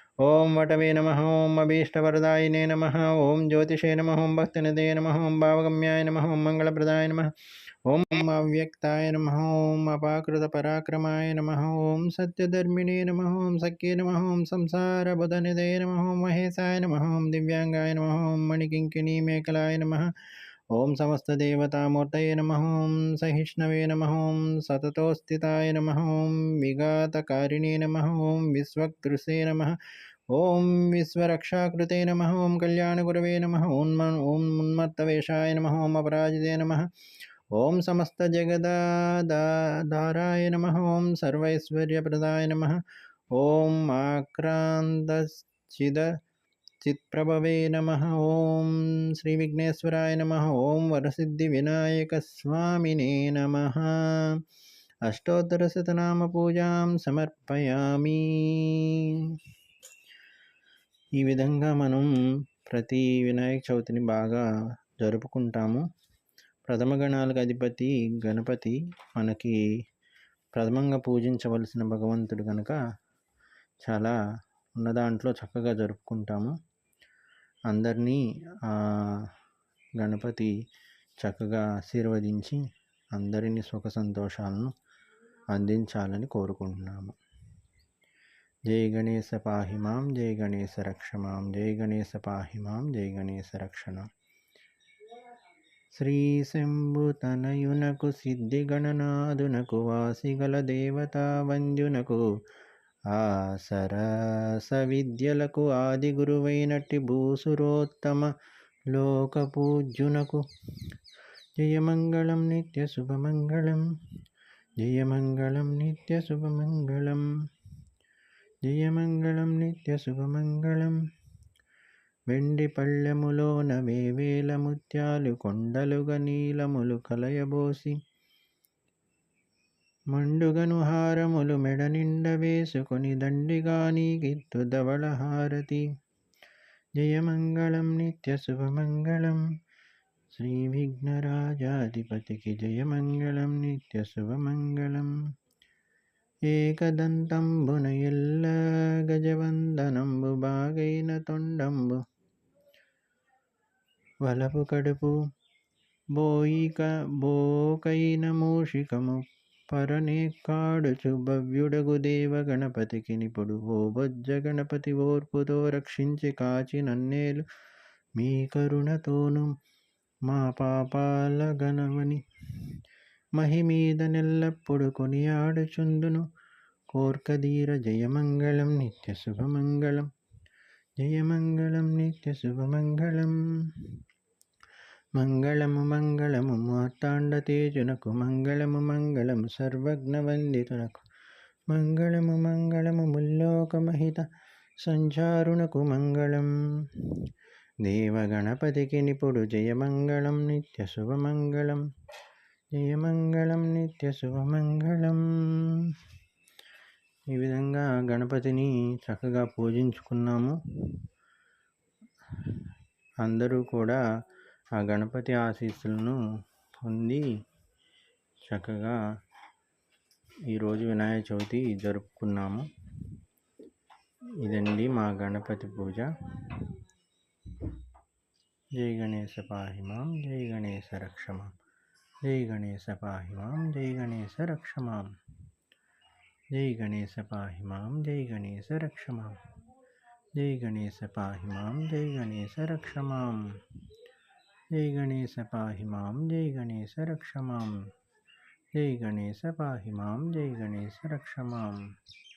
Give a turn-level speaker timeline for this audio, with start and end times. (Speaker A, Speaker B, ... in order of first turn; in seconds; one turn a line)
Speaker A: 0.2-36.9
Speaker A: 37.5-46.2
Speaker A: 46.8-54.4
Speaker A: 55.0-59.4
Speaker A: 61.1-62.1
Speaker A: 62.6-64.5
Speaker A: 65.0-65.8
Speaker A: 66.7-69.6
Speaker A: 70.5-72.8
Speaker A: 73.8-74.2
Speaker A: 74.7-76.6
Speaker A: 77.7-79.3
Speaker A: 79.9-80.5
Speaker A: 81.2-84.7
Speaker A: 85.5-87.2
Speaker A: 88.7-94.1
Speaker A: 95.9-102.3
Speaker A: 103.1-108.3
Speaker A: 108.9-110.5
Speaker A: 111.6-113.9
Speaker A: 114.8-117.3
Speaker A: 118.6-121.0
Speaker A: 122.3-128.0
Speaker A: 130.1-135.9
Speaker A: 136.9-139.4
Speaker A: 140.3-145.2
Speaker A: 146.4-152.0
Speaker A: 154.2-155.2
Speaker A: 156.1-167.4
Speaker A: 168.2-169.6
Speaker A: 170.2-172.8
Speaker A: 173.3-176.3
Speaker A: 176.9-180.1
Speaker A: 181.0-184.0
Speaker A: 185.1-191.0
Speaker A: 191.7-194.3
Speaker A: 194.8-197.3
Speaker A: 197.8-201.8
Speaker A: 202.7-205.9
Speaker A: 207.3-211.0
Speaker A: 213.2-214.0
Speaker A: 214.8-216.2
Speaker A: 216.8-217.3
Speaker A: 218.4-219.0
Speaker A: 220.5-223.1
Speaker A: 224.4-226.7
Speaker A: 228.8-231.5
Speaker A: 232.2-235.1
Speaker A: 236.5-239.4
Speaker A: 240.3-243.6
Speaker A: 244.7-247.9
Speaker A: 248.7-251.9